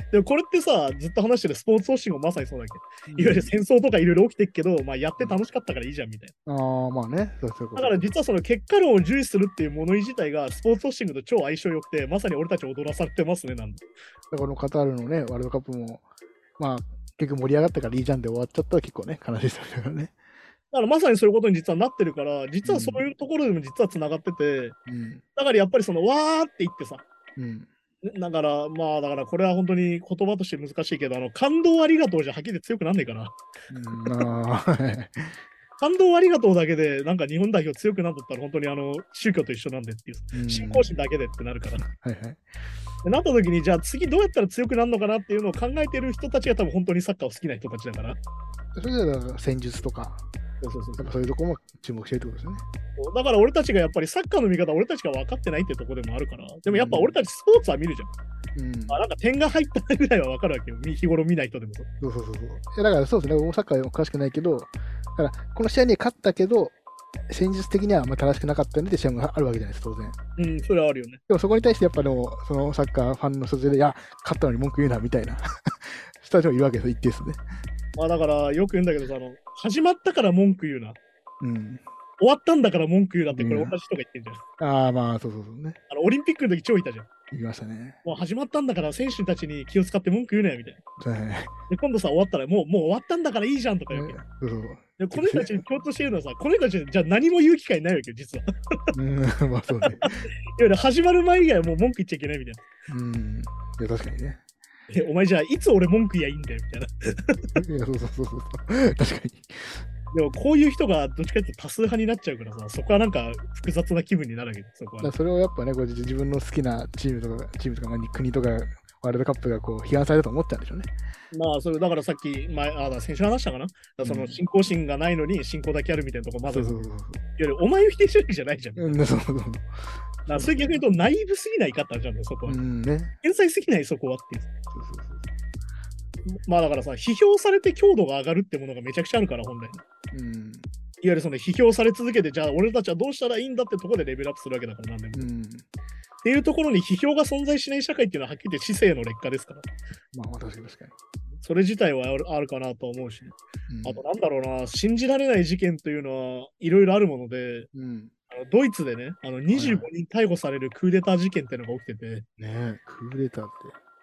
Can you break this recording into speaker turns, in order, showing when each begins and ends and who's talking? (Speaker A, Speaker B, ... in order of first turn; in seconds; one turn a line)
Speaker A: 0.1-6.3
Speaker B: 3.1-3.5
Speaker B: 6.5-8.1
Speaker A: 7.8-13.8
Speaker B: 14.3-16.0
Speaker B: 16.6-20.1
Speaker A: 20.7-24.8
Speaker B: 22.6-23.1
Speaker B: 24.9-25.2
Speaker A: 25.4-27.1
Speaker B: 27.4-27.7
Speaker A: 28.0-33.4
Speaker B: 33.7-35.4
Speaker A: 35.8-41.8
Speaker B: 40.3-40.9
Speaker B: 41.8-42.5
Speaker A: 43.0-48.2
Speaker B: 48.7-50.3
Speaker A: 50.6-51.1
Speaker B: 51.0-52.6
Speaker A: 53.0-58.1
Speaker B: 56.7-57.1
Speaker B: 58.5-59.0
Speaker A: 58.9-61.9
Speaker B: 62.0-66.8
Speaker B: 67.3-70.2
Speaker A: 70.4-71.2
Speaker B: 71.3-77.4
Speaker A: 78.0-81.0
Speaker B: 81.4-81.8
Speaker A: 82.2-84.4
Speaker B: 83.3-83.8
Speaker B: 84.6-85.8
Speaker A: 85.9-87.1
Speaker B: 87.3-88.0
Speaker A: 88.0-90.8
Speaker B: 91.0-91.5
Speaker A: 91.7-94.2
Speaker B: 93.9-95.6
Speaker A: 95.0-98.5
Speaker B: 98.9-100.2
Speaker A: 99.8-102.7
Speaker B: 102.9-104.4
Speaker A: 104.9-107.5
Speaker B: 107.5-109.8
Speaker A: 110.1-115.1
Speaker B: 115.0-120.9
Speaker A: 121.3-126.8
Speaker B: 124.0-124.4
Speaker B: 126.5-127.2
Speaker A: 127.4-129.0
Speaker B: 128.8-129.7
Speaker B: 130.2-130.8
Speaker A: 130.3-132.6
Speaker B: 132.5-133.1
Speaker A: 133.2-134.5
Speaker B: 134.7-135.2
Speaker A: 136.3-139.8
Speaker B: 140.1-140.7
Speaker A: 141.0-145.3
Speaker B: 145.1-145.7
Speaker A: 146.2-149.7
Speaker B: 150.1-150.9
Speaker A: 151.4-157.7
Speaker B: 153.7-154.0
Speaker B: 157.7-158.1
Speaker A: 158.3-162.3
Speaker B: 159.5-159.9
Speaker B: 162.4-163.8